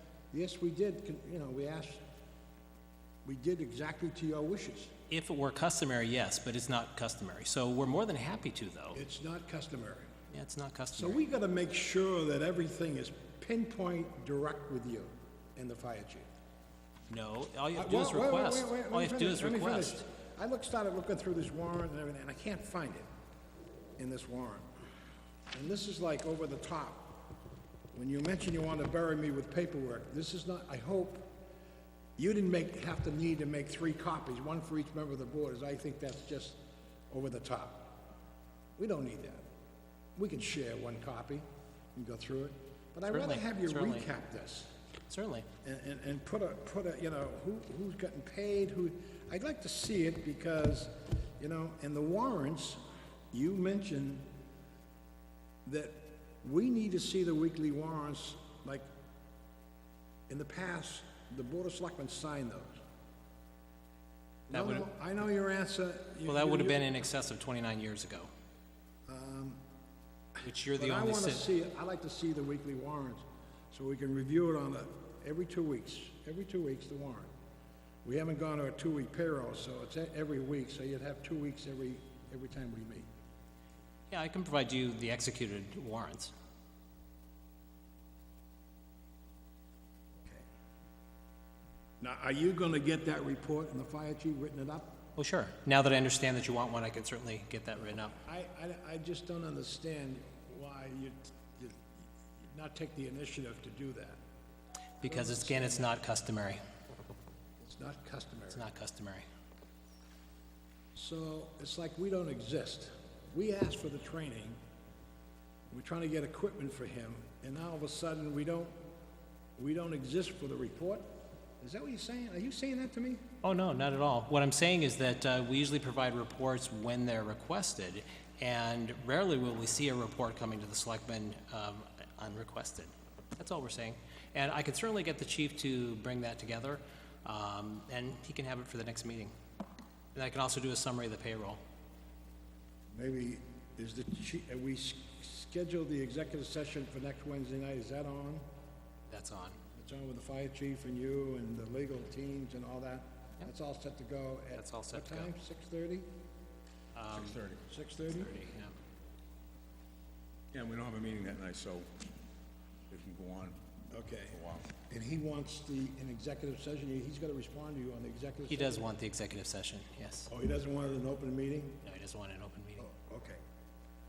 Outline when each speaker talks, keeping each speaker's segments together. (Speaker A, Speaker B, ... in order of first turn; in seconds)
Speaker A: 0.3-2.0, 3.2-4.9, 8.9-10.1, 10.9-16.3, 17.8-23.1, 24.0-24.7, 25.5-27.2, 27.9-31.3, 32.2-36.6, 37.1-37.9, 38.8-39.4, 40.2-44.7, 45.6-52.8, 53.3-54.3, 55.6-58.9, 60.3-62.8, 64.5-66.9, 69.1-69.6, 70.7-77.3, 78.0-83.1, 92.0-95.0, 98.2-101.8, 102.5-104.2, 105.0-105.9, 107.6-108.6, 111.0-114.6, 115.7-118.7, 119.6-121.1, 121.6-123.2, 142.9-148.4, 149.7-156.1, 157.6-158.3, 163.9-168.9, 170.3-171.8, 172.8-173.4
Speaker B: 5.1-9.0, 10.3-11.2, 17.1-20.0, 43.1-44.1, 45.1-45.5, 64.5-64.9, 66.3-68.3, 70.4-71.5, 84.1-86.3, 95.2-98.1, 105.0-106.6, 108.5-109.3, 123.4-139.3, 140.1-141.6, 149.1-149.6, 154.5-155.3, 156.9-157.4, 158.1-158.7, 168.5-170.3, 171.8-172.9
Speaker C: 157.1-157.6, 160.5-162.1, 162.9-163.6, 164.3-164.7